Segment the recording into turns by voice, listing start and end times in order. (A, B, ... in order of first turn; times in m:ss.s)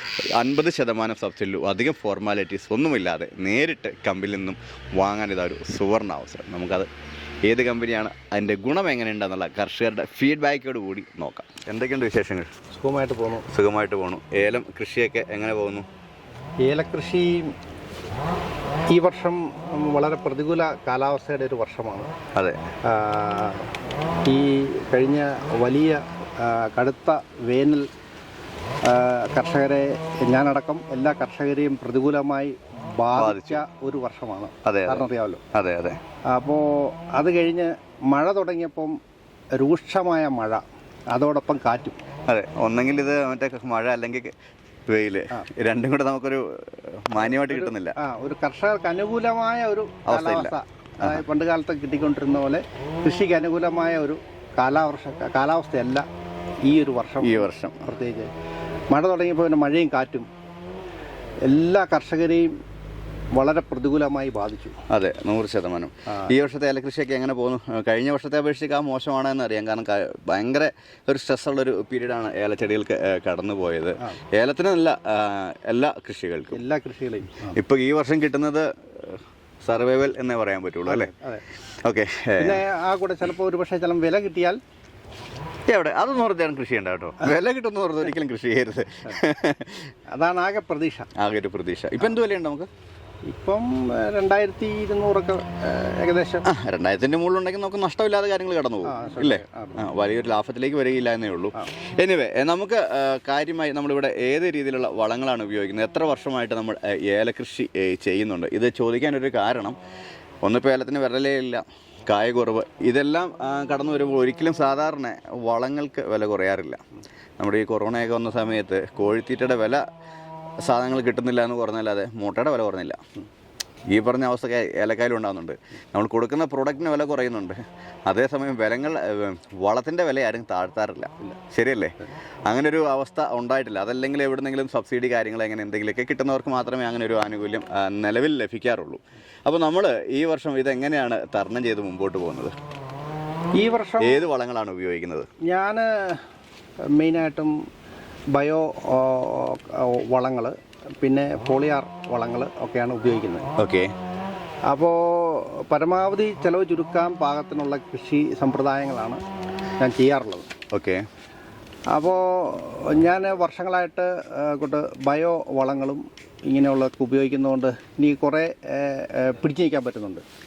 0:00.3-0:06.9 A
0:07.4-0:12.5 A
0:12.7-0:13.5 B
0:13.5-0:15.9 A
0:16.6-0:17.5 B
0:18.9-0:22.1 B
0:22.9-0:23.7 B
0:24.3-0:27.9 B
0:28.9-0:35.4 B
0:33.2-0:33.6 A
0:34.6-0:36.0 A
0:36.3-0:38.9 B
0:39.6-0:42.0 B
0:42.3-0:44.3 A
0:44.9-0:48.0 A
0:47.3-0:56.0 B
0:50.1-0:51.2 A
0:56.6-0:58.3 B
0:57.2-0:57.9 A
0:58.9-1:00.3 B
1:01.4-1:02.5 B
1:03.4-1:04.7 B
1:04.9-1:16.6 A
1:06.1-1:06.3 B
1:16.5-1:17.6 B
1:17.6-1:21.1 A
1:20.9-1:21.4 B
1:21.8-1:22.6 A
1:22.4-1:24.6 B
1:25.7-1:29.9 A
1:30.1-1:31.1 B
1:31.2-1:32.7 A
1:33.3-1:36.4 B
1:36.4-1:49.8 A
1:38.8-1:39.8 B
1:50.4-1:56.8 A
1:57.4-1:59.8 A
2:00.6-2:03.0 A
2:03.9-2:12.0 A
2:12.5-2:22.5 A
2:23.6-2:24.2 B
2:24.0-2:25.3 A
2:25.4-2:26.2 B
2:27.0-2:27.5 B
2:28.3-2:33.4 B
2:33.6-2:33.9 A
2:34.7-2:39.2 B
2:39.8-2:40.5 B
2:40.7-2:41.1 A
2:41.9-2:50.2 B